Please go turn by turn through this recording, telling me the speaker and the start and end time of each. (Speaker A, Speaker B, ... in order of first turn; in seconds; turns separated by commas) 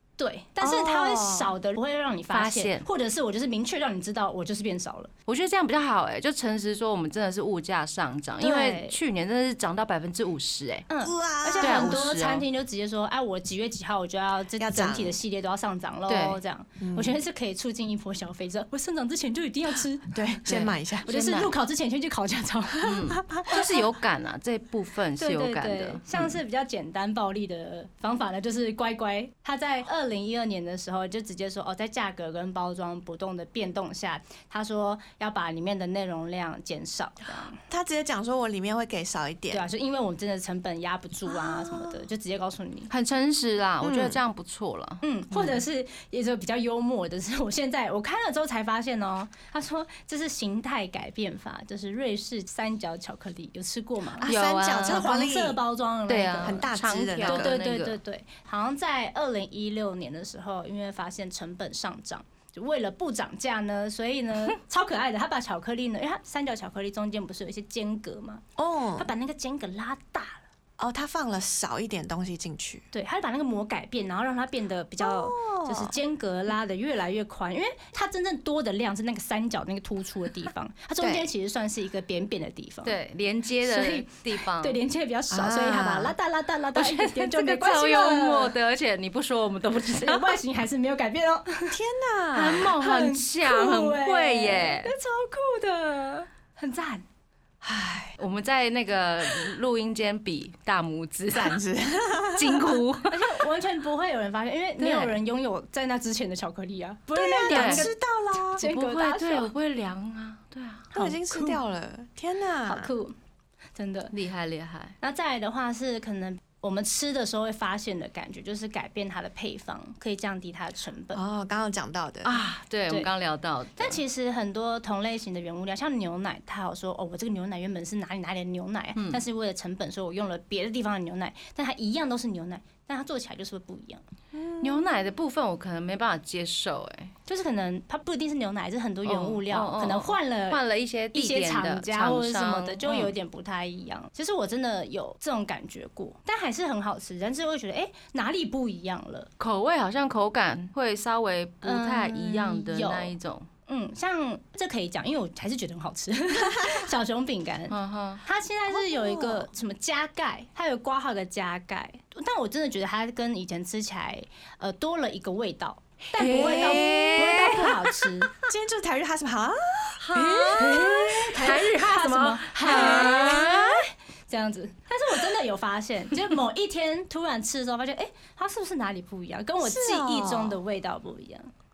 Speaker A: 0.2-5.1, Speaker B: 0.6-1.5, Speaker C: 2.3-2.9, Speaker C: 5.3-10.9, Speaker A: 8.4-9.0, Speaker A: 10.9-20.4, Speaker B: 11.0-12.1, Speaker C: 11.6-12.4, Speaker B: 14.6-15.2, Speaker C: 16.1-16.4, Speaker B: 16.8-17.2, Speaker B: 20.1-21.1, Speaker C: 20.5-21.5, Speaker A: 21.1-23.0, Speaker C: 22.8-26.4, Speaker B: 22.9-23.6, Speaker A: 25.2-37.6, Speaker B: 37.7-39.7, Speaker A: 39.5-42.9, Speaker B: 41.3-42.0, Speaker C: 42.9-45.6, Speaker B: 43.8-44.2, Speaker A: 45.0-54.3, Speaker B: 54.2-55.6, Speaker C: 54.3-55.1, Speaker A: 54.8-56.7, Speaker C: 56.1-58.0, Speaker B: 56.4-57.5, Speaker A: 57.2-68.4, Speaker B: 68.6-69.1, Speaker A: 69.0-70.4, Speaker B: 70.8-72.8, Speaker A: 72.9-83.0, Speaker B: 75.0-76.0, Speaker B: 81.0-81.3, Speaker C: 82.8-84.8, Speaker A: 83.6-88.5, Speaker B: 85.3-86.2, Speaker C: 86.8-90.4, Speaker A: 89.9-91.8, Speaker B: 91.7-92.8, Speaker C: 92.3-94.9, Speaker A: 92.8-97.0, Speaker B: 97.6-98.2, Speaker C: 98.2-101.6, Speaker B: 101.3-102.8, Speaker C: 102.3-103.3, Speaker A: 103.1-109.5, Speaker C: 104.8-105.2, Speaker B: 107.2-108.6, Speaker C: 107.5-107.9, Speaker C: 108.6-110.9, Speaker A: 110.9-111.6, Speaker B: 110.9-112.9, Speaker A: 112.7-113.2, Speaker A: 113.8-114.1, Speaker C: 114.1-115.0, Speaker A: 115.0-121.2, Speaker B: 121.1-122.4, Speaker C: 122.2-124.0, Speaker A: 123.8-134.0, Speaker C: 129.0-129.2, Speaker B: 134.3-134.9, Speaker C: 134.6-137.1, Speaker A: 137.3-140.6, Speaker C: 139.1-143.1, Speaker A: 141.1-149.3, Speaker C: 149.4-153.5, Speaker A: 151.6-153.2, Speaker A: 153.7-168.3, Speaker C: 157.7-158.2, Speaker B: 158.7-159.5, Speaker C: 166.2-168.5, Speaker B: 166.2-167.2, Speaker B: 168.5-171.5, Speaker C: 170.0-173.8, Speaker A: 170.4-181.5, Speaker B: 172.6-173.7, Speaker B: 179.6-180.6